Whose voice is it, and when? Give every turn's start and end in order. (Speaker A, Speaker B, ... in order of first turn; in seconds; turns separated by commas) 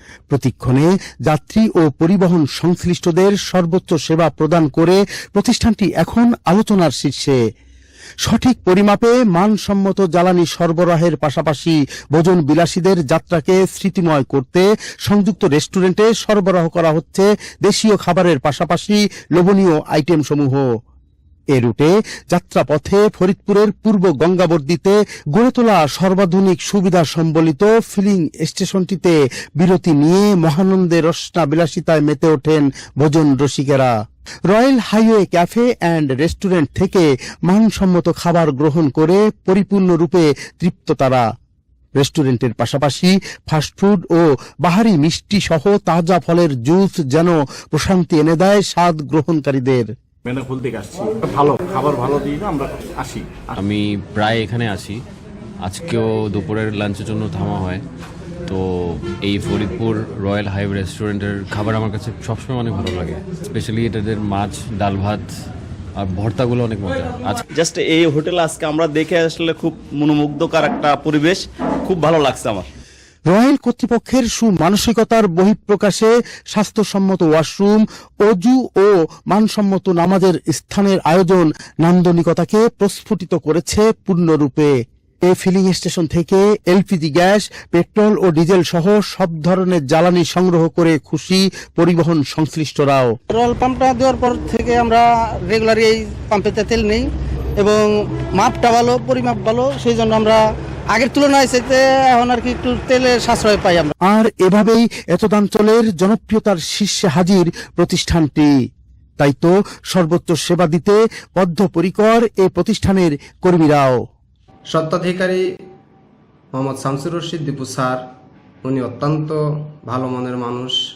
Speaker A: 0.3-7.4, Speaker A: 8.2-20.6, Speaker A: 21.5-33.9, Speaker A: 34.5-41.2, Speaker A: 42.0-49.9, Speaker B: 50.2-53.5, Speaker C: 53.6-55.0, Speaker C: 55.6-57.8, Speaker C: 58.5-65.2, Speaker C: 66.0-67.4, Speaker D: 67.5-72.7, Speaker A: 73.3-84.7, Speaker A: 85.2-93.1, Speaker E: 93.3-97.1, Speaker E: 97.6-103.9, Speaker A: 104.1-108.5, Speaker A: 109.2-114.0, Speaker F: 114.7-115.4, Speaker F: 116.5-118.0, Speaker F: 118.6-120.8